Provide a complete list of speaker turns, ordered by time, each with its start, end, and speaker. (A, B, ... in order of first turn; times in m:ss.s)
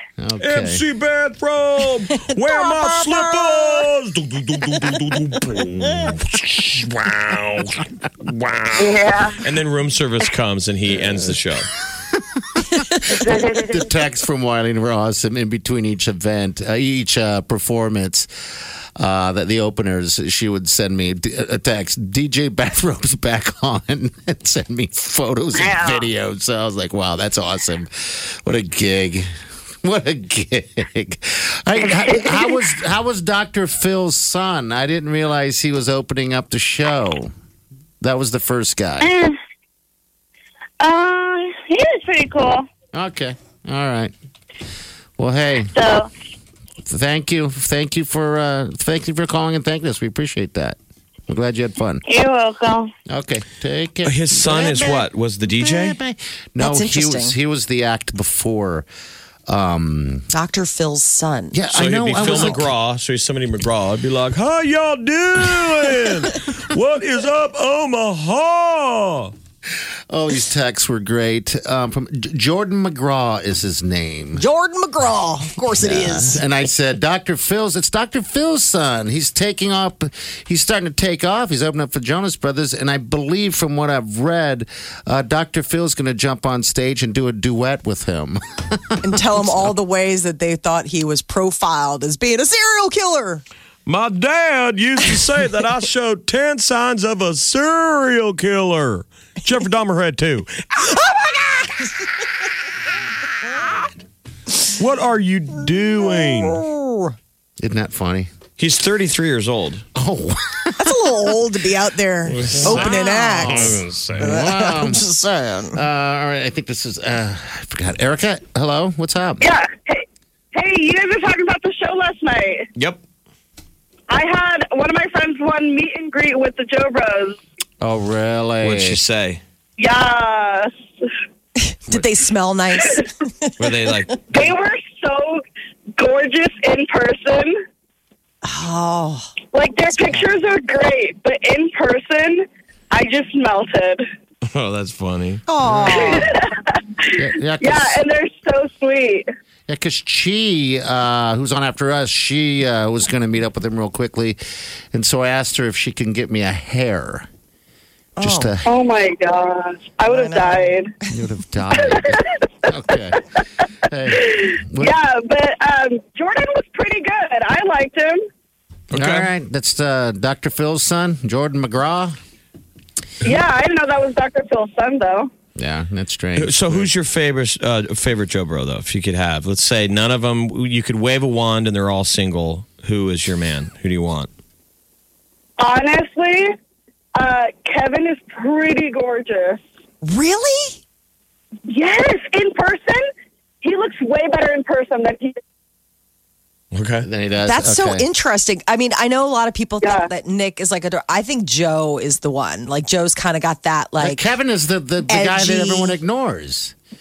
0:00.2-0:00.8 A
0:00.4-0:11.7 B
0:02.1-0:03.8 C
0:05.6-0:06.0 A
0:08.8-0:09.4 D
0:11.0-0:11.4 A
0:12.1-0:12.4 A
0:13.1-0:13.8 D
0:13.2-0:18.3 A
0:19.0-0:29.3 A
0:25.6-0:26.1 D
0:29.8-0:37.3 A
0:32.0-0:32.4 D
0:38.0-0:39.1 A
0:39.0-0:39.4 D
0:40.8-0:42.7 D
0:42.9-0:44.1 A
0:45.2-0:45.7 A
0:45.7-0:46.1 D
0:46.8-0:50.8 A
0:51.3-0:52.0 A
0:52.1-0:52.9 D
0:53.1-0:58.9 A
0:54.0-0:56.0 B
0:56.6-0:57.4 C
0:59.5-1:00.3 A
1:00.3-1:01.6 C
1:01.5-1:02.7 A
1:01.7-1:09.3 B
1:02.2-1:02.6 C
1:10.1-1:14.4 A
1:14.4-1:16.4 C
1:15.7-1:29.7 A
1:29.0-1:33.4 C
1:33.9-1:40.5 B
1:41.2-1:41.6 C
1:44.8-1:46.6 B
1:46.3-1:47.1 C
1:47.6-1:48.3 A
1:48.6-1:49.8 B
1:50.0-1:51.1 A
1:50.8-1:55.8 C
1:52.4-1:53.0 B
1:52.5-1:55.1 A
1:53.6-1:54.0 B
1:55.7-1:59.4 A
1:59.4-2:02.7 E
2:04.1-2:07.4 E
2:07.8-2:09.0 A
2:08.6-2:09.4 B
2:09.8-2:10.7 E
2:11.6-2:14.2 C
2:13.6-2:14.6 B
2:14.3-2:15.4 E
2:16.0-2:17.6 E
2:18.4-2:20.4 C
2:19.5-2:24.0 E
2:24.5-2:25.4 B
2:25.5-2:26.3 C
2:26.0-2:29.3 E
2:27.2-2:28.0 A
2:29.7-2:34.4 A
2:34.9-2:37.3 A
2:38.2-2:38.6 C
2:38.2-2:38.7 A
2:38.7-2:40.9 E
2:40.1-2:41.1 C
2:41.1-2:43.2 A
2:41.8-2:42.4 E
2:43.9-2:44.9 A
2:44.2-2:48.2 E
2:48.9-2:49.3 B
2:48.9-2:52.2 A
2:53.2-2:55.3 E
2:55.6-2:56.9 A
2:56.4-3:04.3 B
3:05.6-3:06.5 E
3:07.2-3:09.6 E
3:10.0-3:10.8 C
3:11.7-3:13.1 E
3:13.6-3:15.4 E
3:16.7-3:17.1 B
3:17.0-3:18.1 A
3:17.4-3:24.2 C
3:19.8-3:20.1 E
3:24.0-3:26.8 A
3:25.1-3:26.0 C